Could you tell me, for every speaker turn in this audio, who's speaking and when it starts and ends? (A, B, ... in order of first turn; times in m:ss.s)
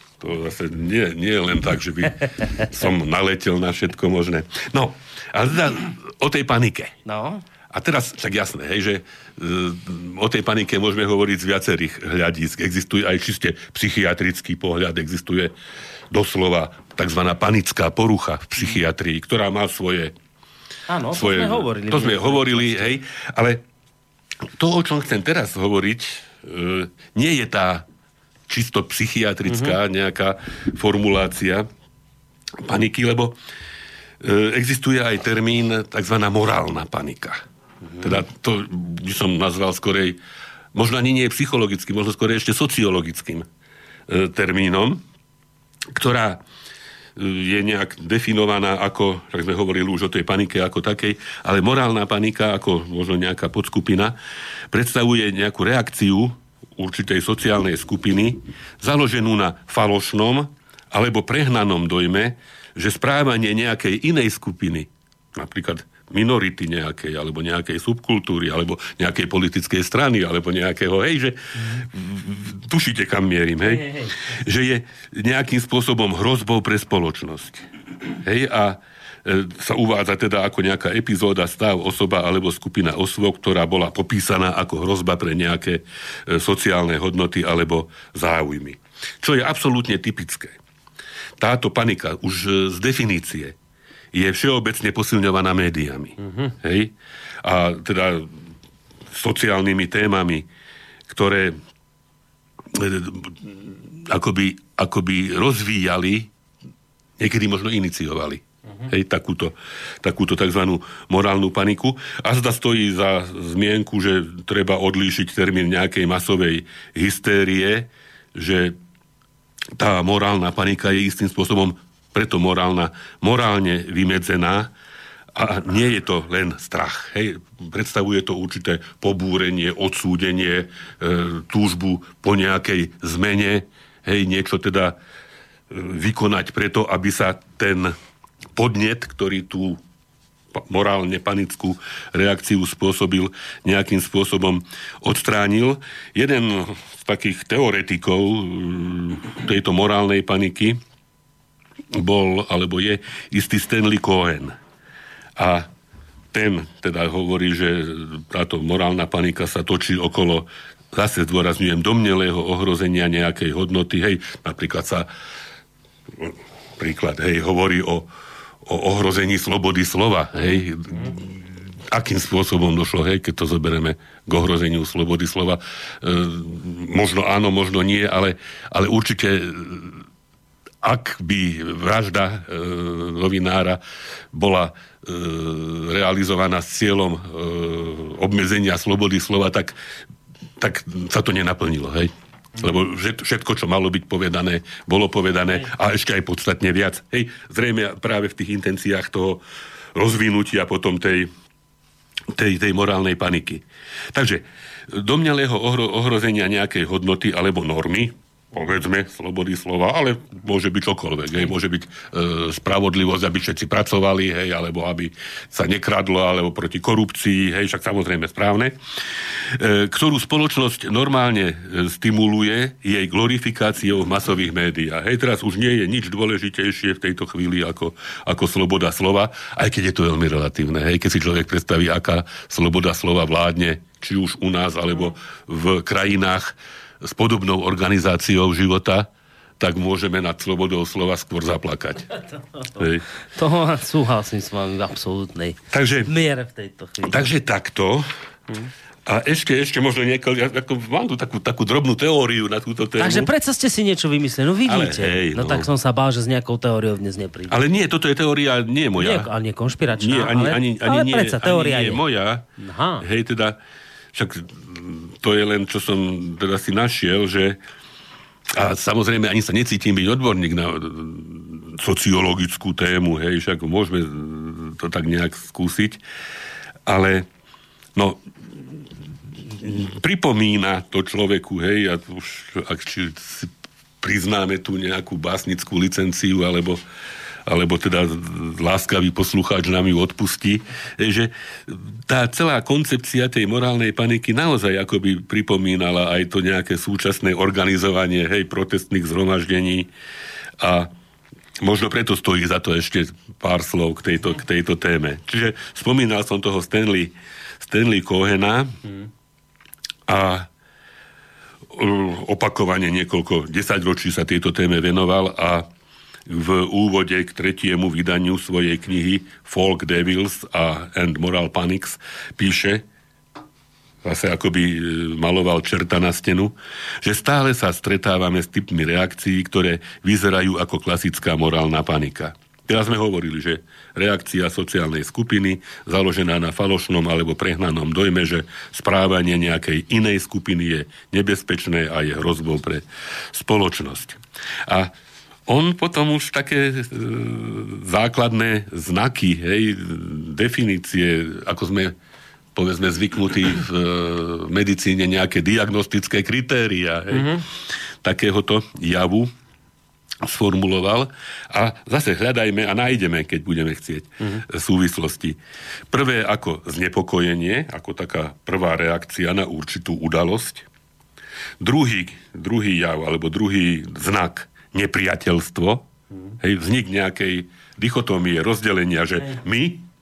0:00.2-0:06.9 A
0:07.0-0:07.4 B
0:07.7-0:15.5 A
0:16.1-0:20.1 A
0:20.9-0:22.9 B
0:21.1-0:23.6 A
0:24.5-0:27.8 A
0:28.5-0:31.7 A
0:29.5-0:29.8 B
0:32.6-0:33.4 A
0:34.2-0:37.4 A
0:38.0-0:40.2 A
0:40.7-0:43.4 A
0:44.1-0:45.0 A
0:45.9-0:46.4 A
0:47.2-0:54.1 A
0:54.7-1:17.6 A
1:13.7-1:14.1 B
1:18.2-1:30.6 A
1:31.4-1:33.5 A
1:34.1-1:38.3 A
1:36.2-1:36.5 B
1:39.1-1:40.5 A
1:41.1-1:41.6 A
1:42.7-1:46.3 A
1:47.2-1:58.8 A
1:59.8-2:04.7 A
2:05.3-2:15.0 A
2:15.7-2:17.9 A
2:18.5-2:19.8 A
2:20.5-2:30.8 A
2:31.9-2:34.6 A
2:35.4-2:35.7 A
2:36.3-2:45.1 A
2:46.1-2:48.1 A
2:48.6-3:00.0 A
3:00.8-3:03.8 A
3:04.3-3:09.8 A
3:10.6-3:19.4 A
3:19.9-3:21.3 A
3:22.3-3:59.1 A
3:59.6-4:02.1 A
4:02.8-4:03.0 A
4:03.3-4:07.3 B
4:05.7-4:06.1 A
4:07.0-4:08.1 A
4:09.0-4:13.3 A
4:13.0-4:17.6 B
4:14.6-4:15.7 A
4:17.5-4:19.3 A
4:19.0-4:22.0 B
4:19.9-4:22.4 A
4:22.6-4:23.0 B
4:23.0-4:23.6 A
4:24.1-4:27.6 A
4:28.5-4:36.0 A
4:36.8-4:37.3 A
4:37.9-4:38.8 A
4:39.4-4:46.8 A
4:47.4-4:59.9 A
5:00.6-5:00.9 A
5:01.6-5:08.8 A
5:10.1-5:10.5 A
5:11.7-5:15.6 A
5:16.3-5:22.8 A
5:24.0-5:44.9 A
5:45.5-5:51.9 A
5:52.5-5:59.3 A
5:57.1-5:57.4 B
6:00.2-6:05.4 A
6:05.9-6:10.6 A
6:11.6-6:15.8 A
6:16.4-6:19.8 A